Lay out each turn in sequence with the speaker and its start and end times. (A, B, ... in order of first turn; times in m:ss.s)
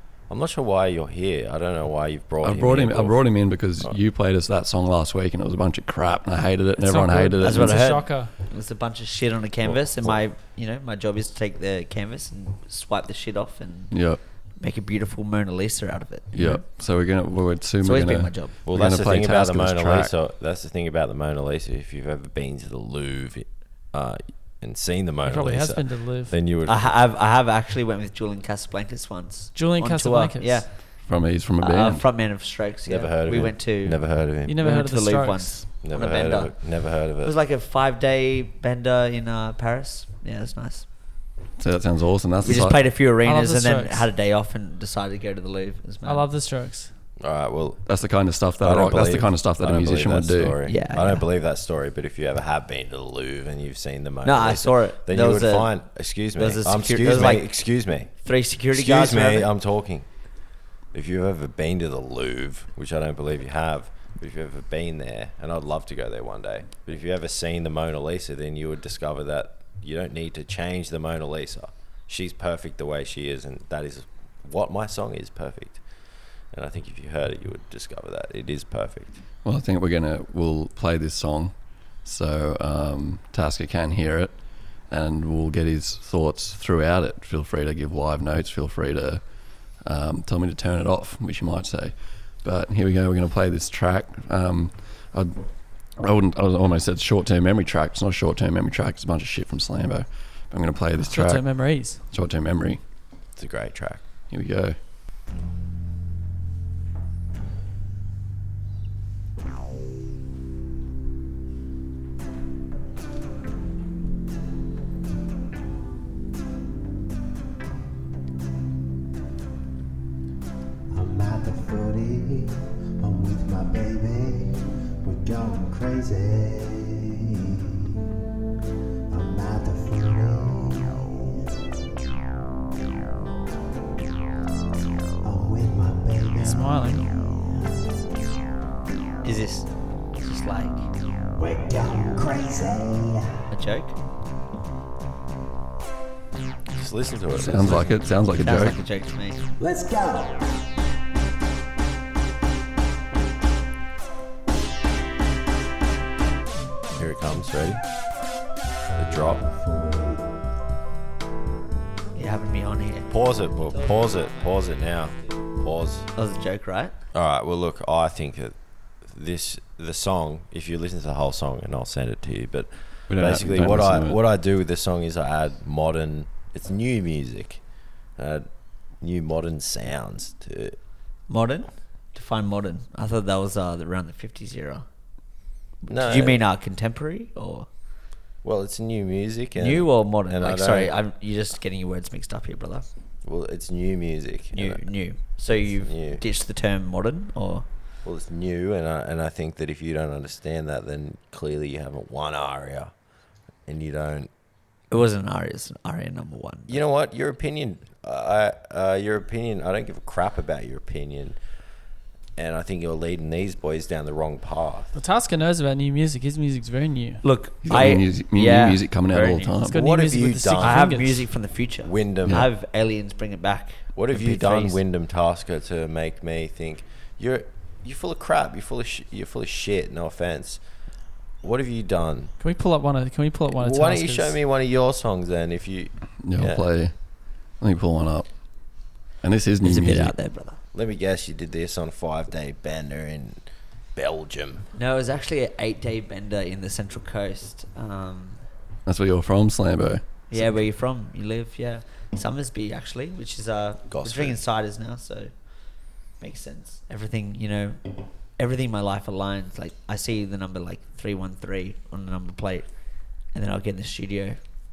0:00.3-0:03.2 A
0:02.4-0:07.9 B
0:06.8-0:08.3 C
0:07.4-0:16.3 D
0:09.6-0:10.2 A
0:13.9-0:14.2 B
0:16.3-0:20.1 B
0:16.3-0:16.6 C
0:17.8-0:18.6 D
0:18.6-0:27.0 A
0:25.2-0:26.4 C
0:26.6-0:31.0 D
0:29.5-0:30.6 C
0:31.0-0:32.0 B
0:31.6-0:41.1 D
0:32.8-0:34.6 A
0:34.4-0:35.6 C
0:35.8-0:37.3 A
0:41.6-0:42.8 B
0:42.4-0:46.3 D
0:43.2-0:44.1 C
0:46.0-0:46.9 C
0:47.2-0:47.9 A
0:47.8-0:50.6 B
0:48.6-0:58.1 A
0:50.6-0:51.2 D
0:54.2-0:55.8 D
0:56.3-0:59.5 D
0:58.7-1:00.1 A
1:00.9-1:15.8 A
1:16.5-1:19.2 A
1:19.4-1:21.5 B
1:22.0-1:29.2 B
1:29.8-1:42.8 B
1:41.0-1:42.0 C
1:43.4-1:44.0 A
1:44.3-1:44.8 B
2:00.9-2:07.7 E
2:09.1-2:11.4 E
2:15.2-2:18.0 E
2:16.4-2:17.1 C
2:19.2-2:20.9 D
2:21.4-2:23.4 E
2:23.5-2:24.0 D
2:26.7-2:28.1 A
2:27.3-2:28.8 B
2:28.4-2:29.5 D
2:29.6-2:30.6 E
2:36.9-2:37.8 A
2:39.0-2:39.4 A
2:39.2-2:40.3 E
2:42.1-2:43.1 D
2:43.1-2:46.1 A
2:46.2-2:46.9 D
2:47.1-2:57.6 A
2:53.1-2:54.2 B
2:58.2-2:58.5 A
2:59.0-3:00.8 A
3:01.3-3:04.8 D
3:05.8-3:06.4 A
3:05.9-3:07.7 D
3:08.4-3:10.9 A
3:09.6-3:12.8 D
3:13.2-3:14.9 A
3:14.5-3:17.6 D
3:15.5-3:16.2 A
3:18.0-3:22.9 A
3:23.6-3:24.3 A
3:24.9-3:26.8 D
3:26.7-3:31.4 A
3:32.4-3:34.9 A
3:34.9-3:37.2 C
3:37.2-3:39.6 D
3:37.6-3:39.7 B
3:39.6-3:41.2 C
3:39.7-3:41.1 A
3:40.6-3:44.8 D
3:41.8-3:42.5 A
3:43.9-3:50.6 A
3:51.4-3:52.3 A
3:52.4-3:54.4 C
3:53.5-3:56.6 A
3:56.2-4:00.1 B
3:59.6-4:00.6 D
4:00.7-4:04.7 A
4:04.7-4:08.4 D
4:08.8-4:10.0 B
4:10.3-4:22.7 D
4:13.9-4:14.4 A
4:23.3-4:24.4 D